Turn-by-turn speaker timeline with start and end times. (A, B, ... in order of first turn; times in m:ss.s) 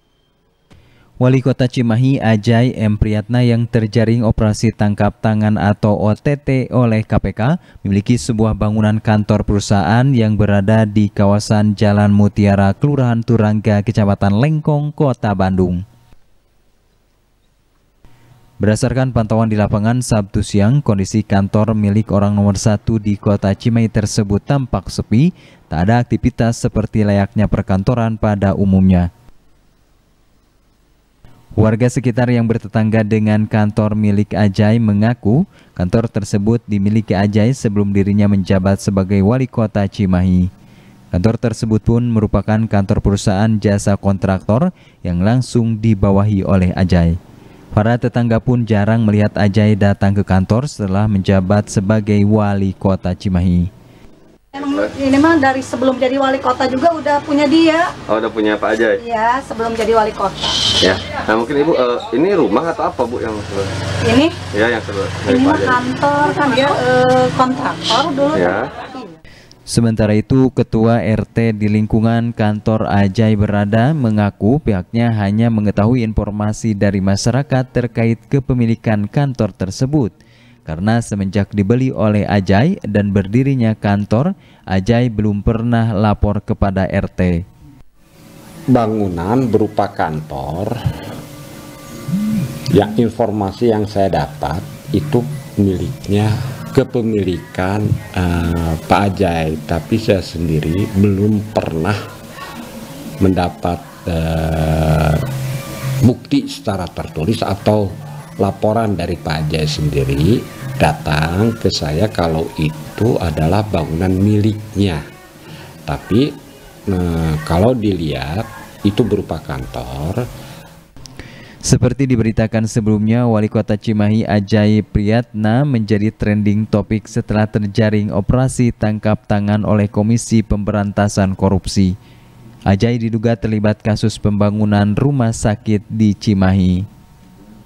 0:01.2-0:15.8 A
0:18.6-0:29.1 A
0:31.6-0:40.5 A
0:41.1-0:47.2 A
0:47.7-0:53.7 A
0:54.5-0:57.9 B
0:54.5-0:54.9 C
0:58.1-0:59.0 C
0:59.0-1:00.6 B
1:00.8-1:03.7 C
1:04.0-1:04.3 B
1:04.5-1:05.8 C
1:05.3-1:09.2 B
1:08.3-1:08.7 C
1:09.7-1:20.1 A
1:20.6-1:27.4 A
1:28.7-1:30.7 D
1:32.7-1:42.0 D
1:43.2-1:45.2 D
1:46.0-1:55.0 D
1:55.9-1:56.3 D
1:56.9-2:00.2 D
2:01.6-2:11.9 A
2:12.7-2:16.8 A